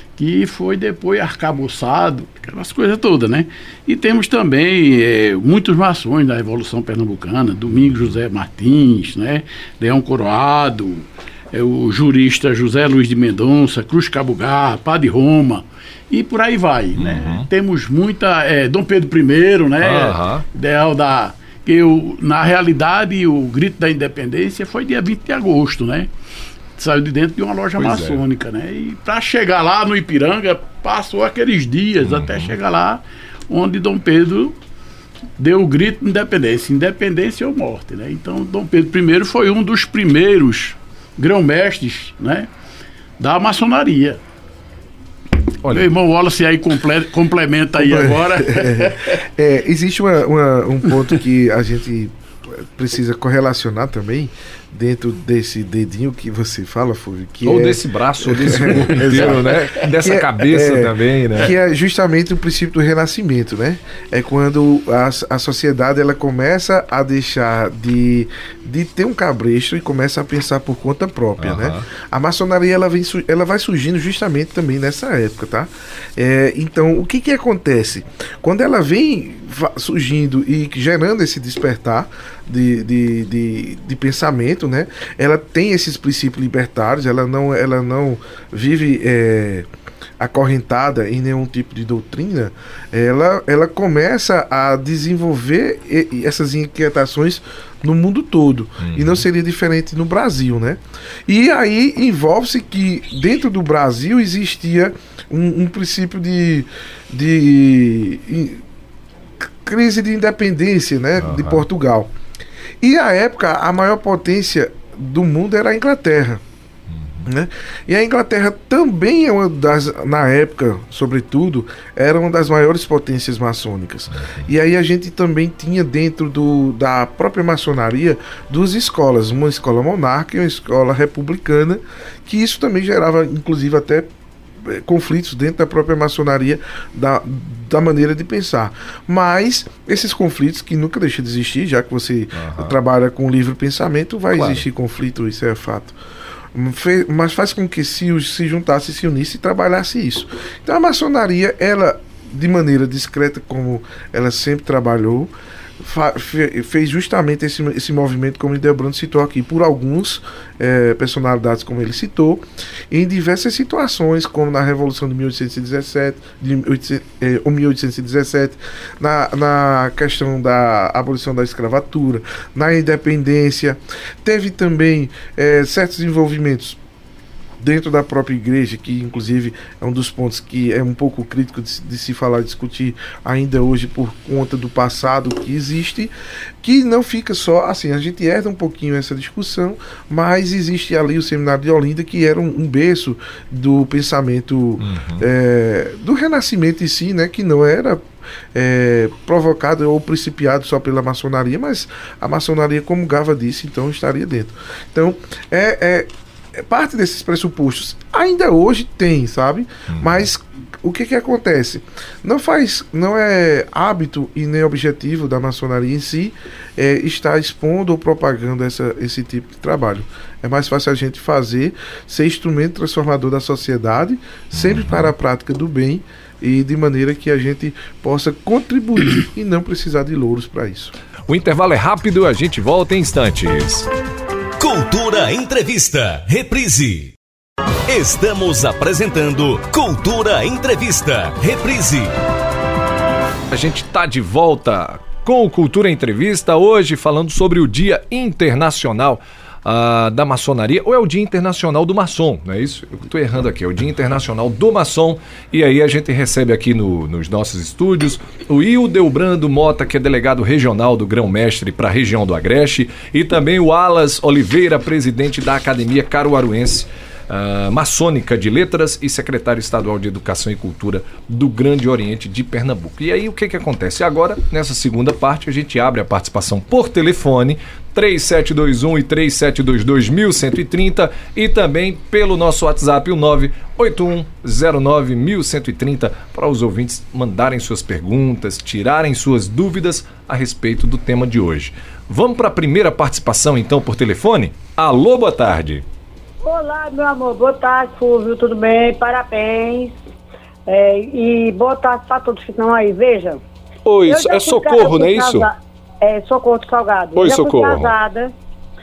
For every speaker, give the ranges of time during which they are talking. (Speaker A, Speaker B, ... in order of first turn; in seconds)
Speaker A: 0.2-26.1, 26.8-34.6, 35.4-42.5, 43.2-44.2, 45.6-49.2, 58.7-59.4
Speaker B: 17.0-17.4, 19.8-20.4, 27.8-28.2, 32.0-32.5, 45.6-45.9, 57.4-61.5, 71.4-71.8, 98.8-99.2, 111.2-111.6, 116.9-117.3, 124.1-124.5, 142.3-142.8, 144.3-144.6, 194.8-195.3, 209.9-210.2, 224.5-225.1, 231.3-233.9, 243.5-295.8, 303.8-305.5, 307.1-307.9
Speaker C: 47.8-89.7, 90.2-108.6, 109.4-112.1, 112.8-116.4, 117.2-134.1, 134.6-146.0, 146.5-176.8, 177.6-230.9
Speaker D: 234.6-237.1, 237.9-242.1
Speaker E: 296.4-299.9, 300.7-303.4, 304.1-308.3